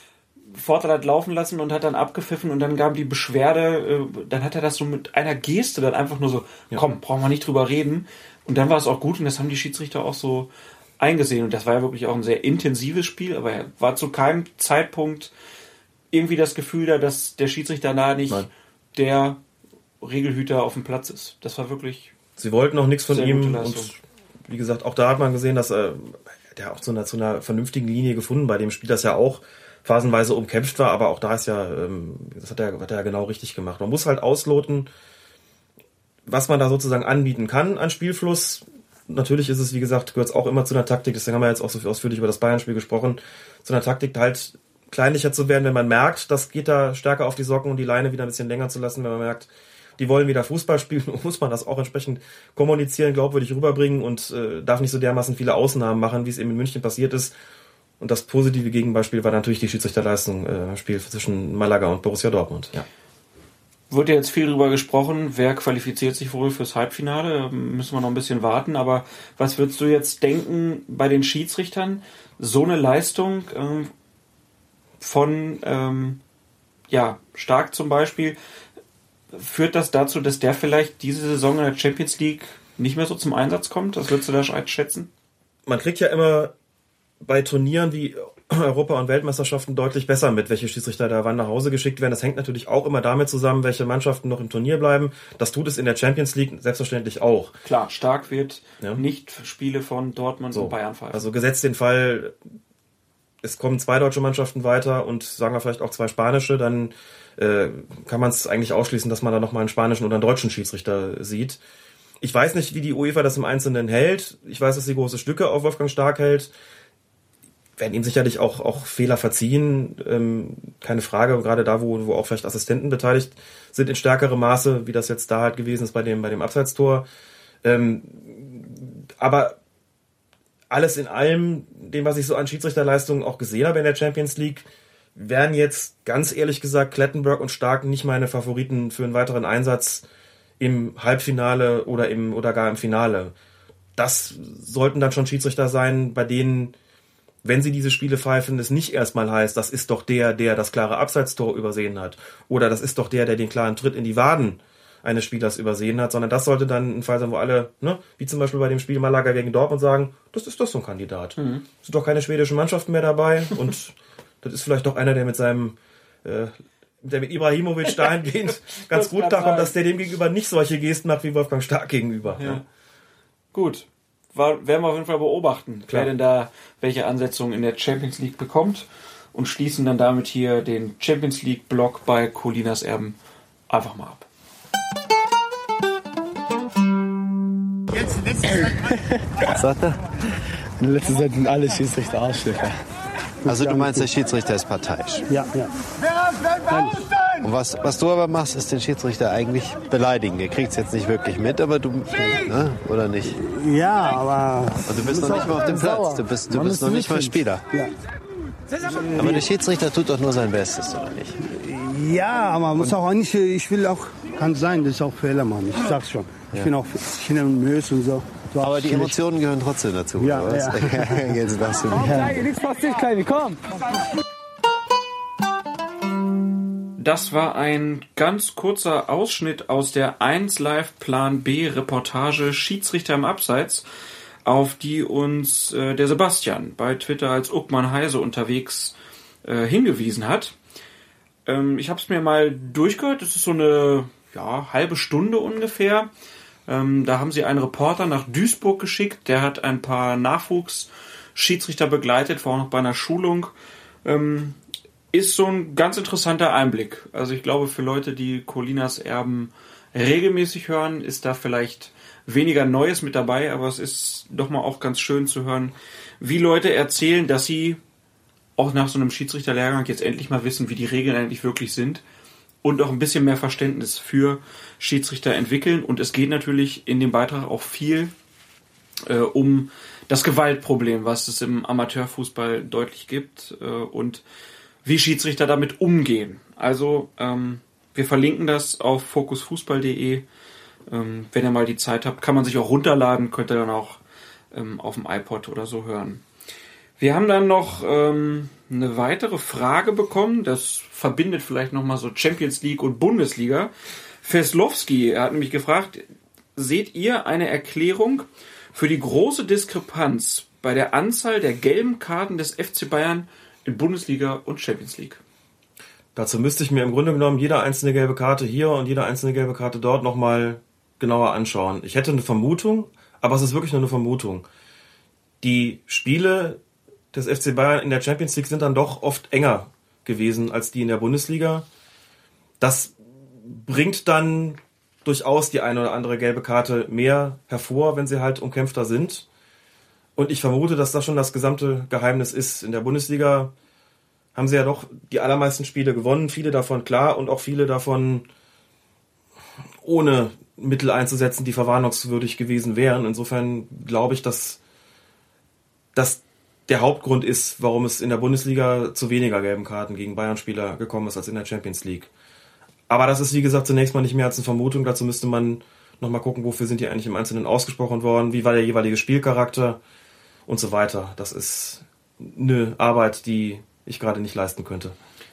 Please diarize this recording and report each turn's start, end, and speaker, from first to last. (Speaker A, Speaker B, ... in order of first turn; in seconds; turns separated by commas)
Speaker A: 0.5-15.3, Speaker A: 16.1-19.4, Speaker A: 20.0-22.1, Speaker B: 22.4-34.9, Speaker A: 23.1-23.9, Speaker B: 36.3-57.3, Speaker B: 58.0-62.9, Speaker A: 63.9-73.9, Speaker A: 75.0-76.2, Speaker A: 76.9-78.4, Speaker A: 79.3-85.1, Speaker B: 85.7-86.5, Speaker B: 87.2-97.5, Speaker A: 97.6-101.3, Speaker B: 100.5-102.3, Speaker B: 103.4-111.6, Speaker B: 112.2-116.5, Speaker B: 117.8-127.1, Speaker B: 127.6-129.6, Speaker B: 130.7-140.1, Speaker B: 140.6-143.3, Speaker B: 143.9-146.7, Speaker B: 147.4-172.6, Speaker A: 161.4-161.6, Speaker A: 167.9-169.7, Speaker A: 172.3-172.6, Speaker A: 173.5-183.2, Speaker A: 183.7-184.2, Speaker C: 189.5-190.0, Speaker C: 190.8-192.7, Speaker C: 193.4-195.3, Speaker D: 193.5-194.1, Speaker D: 195.3-195.7, Speaker D: 196.7-197.0, Speaker C: 197.4-203.4, Speaker D: 203.4-207.9, Speaker C: 204.8-207.7, Speaker D: 209.0-209.4, Speaker C: 209.1-211.4, Speaker D: 211.4-219.2, Speaker C: 218.6-222.4, Speaker D: 220.2-221.2, Speaker D: 221.9-223.6, Speaker A: 227.0-233.8, Speaker A: 234.4-240.6, Speaker A: 241.4-246.1, Speaker A: 246.7-253.5, Speaker A: 254.0-254.6, Speaker A: 255.1-267.8, Speaker A: 268.6-272.0, Speaker A: 272.6-278.1, Speaker A: 279.1-284.2, Speaker A: 284.8-290.2, Speaker A: 290.9-294.0, Speaker A: 294.5-296.2, Speaker A: 297.0-303.7, Speaker A: 304.2-306.0, Speaker A: 306.6-315.2, Speaker B: 316.1-324.4, Speaker B: 325.4-326.6, Speaker B: 327.1-331.6, Speaker B: 332.6-339.3, Speaker B: 340.1-343.5, Speaker B: 344.3-348.3, Speaker B: 349.8-354.6, Speaker B: 355.9-362.1, Speaker B: 362.9-369.8, Speaker B: 370.5-374.9